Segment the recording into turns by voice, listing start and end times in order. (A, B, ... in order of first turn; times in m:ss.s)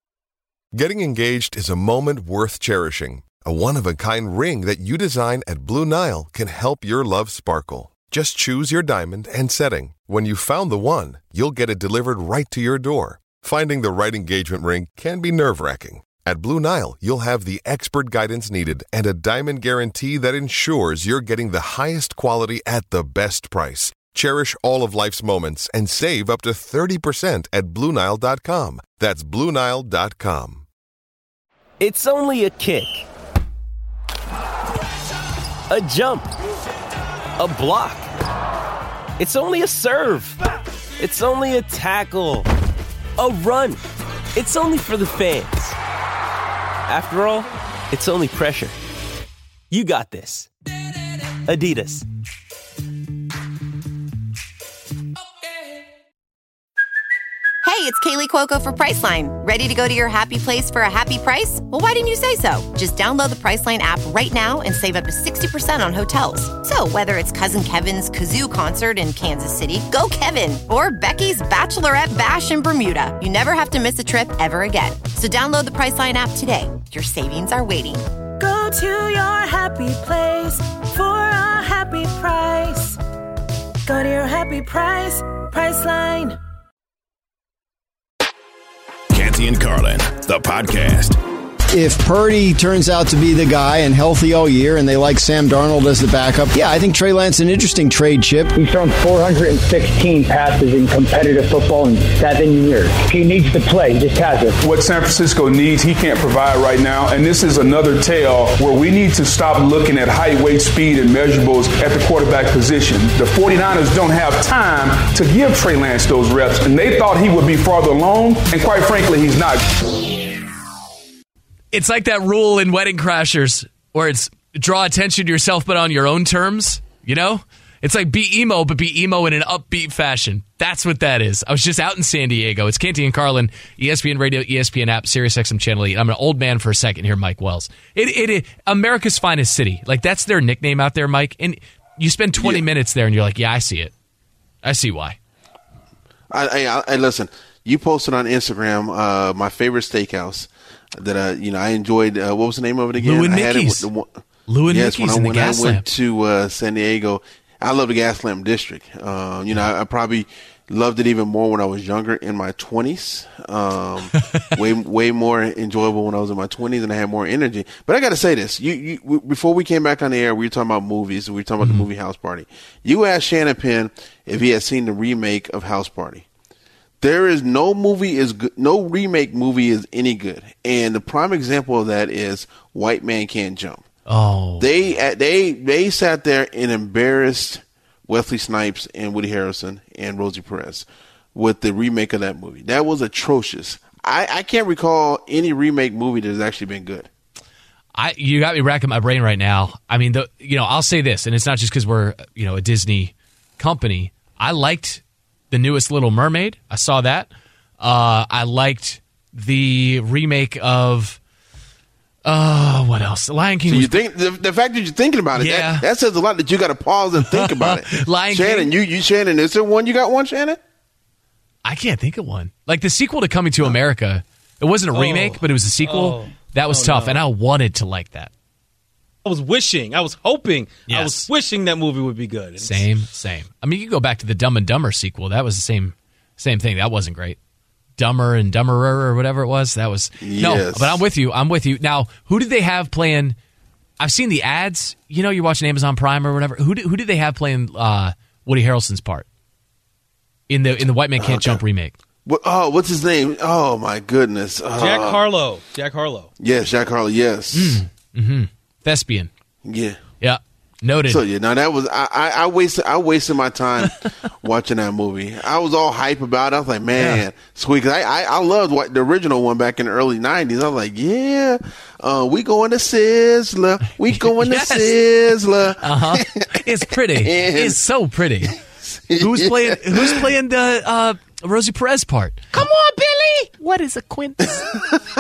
0:00.7-0:30.6 A
0:31.8-0:33.0 B
0:35.7-0:36.3 B
0:37.4-0:38.1 B
0:39.2-0:40.4 B
0:41.0-0:42.5 B
0:43.2-0:43.8 B
0:44.4-0:45.8 B
0:46.9-0:48.8 B
0:49.7-0:50.5 B
0:51.5-0:52.0 B
0:57.6-1:18.0 C
1:18.4-1:23.0 D
1:23.9-1:26.4 D
1:29.1-1:31.2 E
1:31.7-1:38.5 F
1:38.5-1:44.6 G
1:44.6-1:59.6 H
2:01.7-2:23.9 I
2:22.4-2:22.6 J
2:24.6-2:25.2 I
2:26.3-2:56.2 J
2:33.0-2:33.9 I
2:34.5-2:35.8 I
2:51.6-2:51.9 I
2:57.0-3:03.8 J
3:04.1-3:04.9 I
3:04.6-3:17.1 J
3:17.9-3:27.3 I
3:27.8-3:31.2 I
3:32.2-3:34.0 I
3:33.7-3:40.6 J
3:35.4-3:35.9 I
3:37.3-3:38.7 I
3:41.6-3:48.3 I
3:44.9-3:47.2 K
3:49.2-3:52.8 K
3:50.9-3:51.3 I
3:52.6-3:57.4 I
3:58.0-4:03.4 I
4:00.2-4:01.0 J
4:04.0-4:09.2 I
4:10.5-4:11.9 I
4:11.2-4:11.6 J
4:12.2-4:15.2 J
4:14.8-4:16.3 K
4:16.4-4:17.8 J
4:17.5-4:19.3 I
4:19.6-4:20.0 J
4:20.2-4:21.2 I
4:21.1-4:36.6 J
4:27.0-4:27.2 I
4:34.2-4:34.9 I
4:35.8-4:38.5 I
4:37.2-4:37.8 J
4:38.9-4:40.2 J
4:39.2-4:42.4 I
4:43.6-4:44.7 I